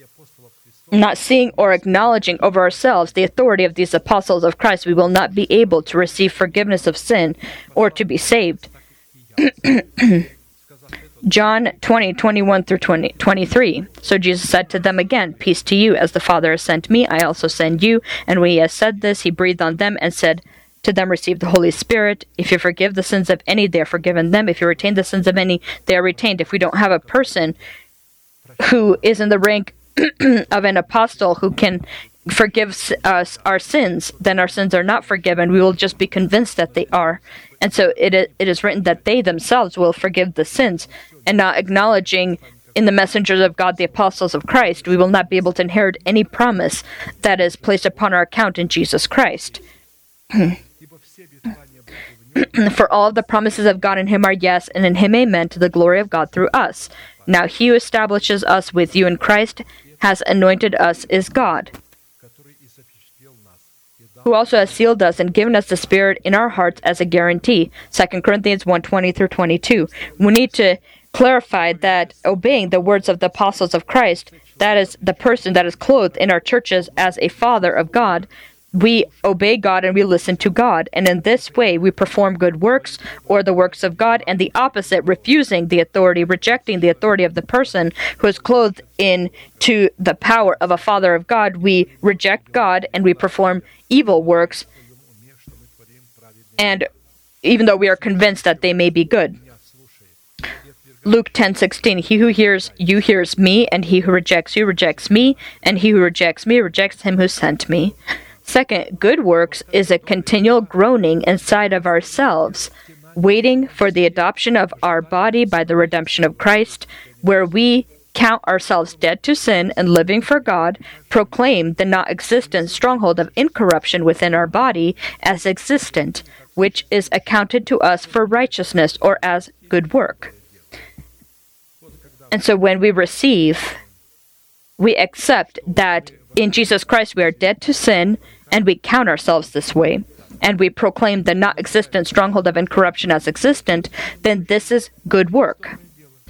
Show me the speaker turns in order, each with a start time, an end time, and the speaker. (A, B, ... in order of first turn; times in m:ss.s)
0:00.9-0:08.7 A
0:09.4-0:10.3 A
0:11.2-0:27.6 A
0:28.6-0:49.6 A
0:50.3-0:50.6 A
0:52.4-1:01.7 A
1:04.2-1:34.7 A
1:36.6-1:36.9 A
1:37.4-1:39.4 A
1:41.0-2:10.3 A
2:12.3-2:13.8 A
2:14.8-2:25.8 A